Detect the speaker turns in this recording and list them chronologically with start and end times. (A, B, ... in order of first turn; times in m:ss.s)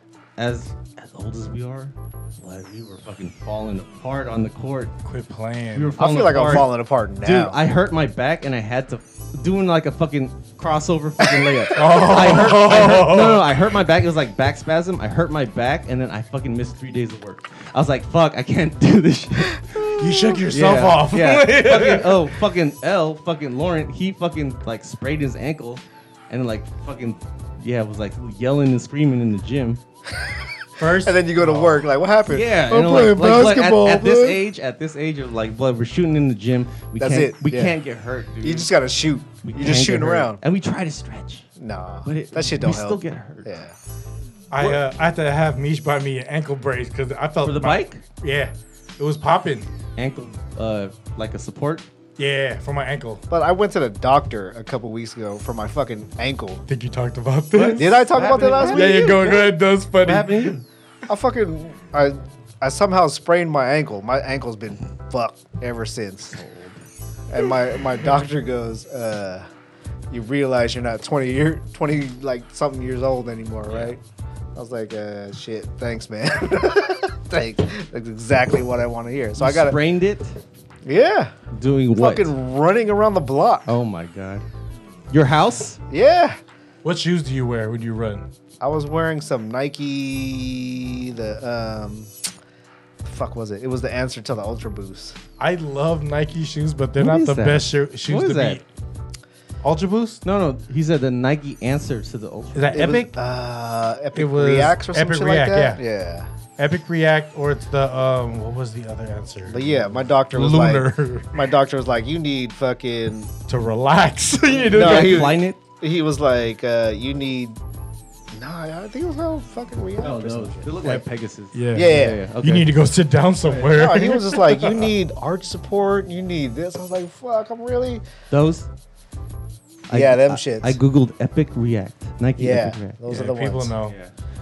0:00.4-0:04.9 A
0:05.0-0:05.9 B
0:05.7-0:19.9 A
0:06.0-0:07.6 C
0:11.7-0:13.5 B
0:19.7-0:20.4 C
0:19.9-0:22.2 B
0:20.4-0:29.8 A
0:30.1-0:34.4 C
0:30.8-0:31.8 B
0:32.3-0:38.7 A
0:37.0-0:37.8 C
0:38.4-0:40.4 C
0:39.4-0:41.4 A
0:41.6-0:43.7 C
0:42.1-0:43.5 A
0:44.5-0:49.7 B
0:47.4-0:48.0 A
0:50.0-0:51.8 A
0:52.2-0:53.2 B
0:53.3-0:56.6 C
0:56.7-1:00.5 B
0:57.5-1:00.6 A
0:57.7-0:59.3 C
1:01.1-1:06.4 C
1:06.3-1:06.8 A
1:07.3-1:09.4 C
1:10.1-1:14.0 C
1:13.7-1:13.9 A
1:14.6-1:19.8 C
1:19.4-1:20.4 A
1:20.8-1:21.3 C
1:21.5-1:22.3 A
1:22.0-1:23.7 C
1:23.7-1:24.4 A
1:25.1-1:25.8 A
1:25.9-1:26.4 C
1:26.8-1:28.2 B
1:28.6-1:32.1 C
1:33.0-1:35.2 C
1:35.4-1:38.6 B
1:37.0-1:38.6 A
1:39.6-1:40.2 B
1:40.2-1:42.8 A
1:42.5-1:43.1 B
1:42.7-1:46.3 C
1:44.1-1:45.8 B
1:46.6-1:49.8 B
1:49.5-1:53.3 C
1:50.3-1:51.3 B
1:53.5-1:55.3 B
1:54.6-1:57.6 C
1:54.7-1:55.6 A
1:58.3-2:00.7 C
2:00.0-2:02.7 A
2:00.8-2:04.9 B
2:01.7-2:02.2 C
2:03.5-2:08.0 C
2:08.3-2:08.7 A
2:09.9-2:13.1 A
2:09.9-2:10.8 C
2:12.4-2:13.7 C
2:13.1-2:13.9 B
2:13.8-2:14.1 A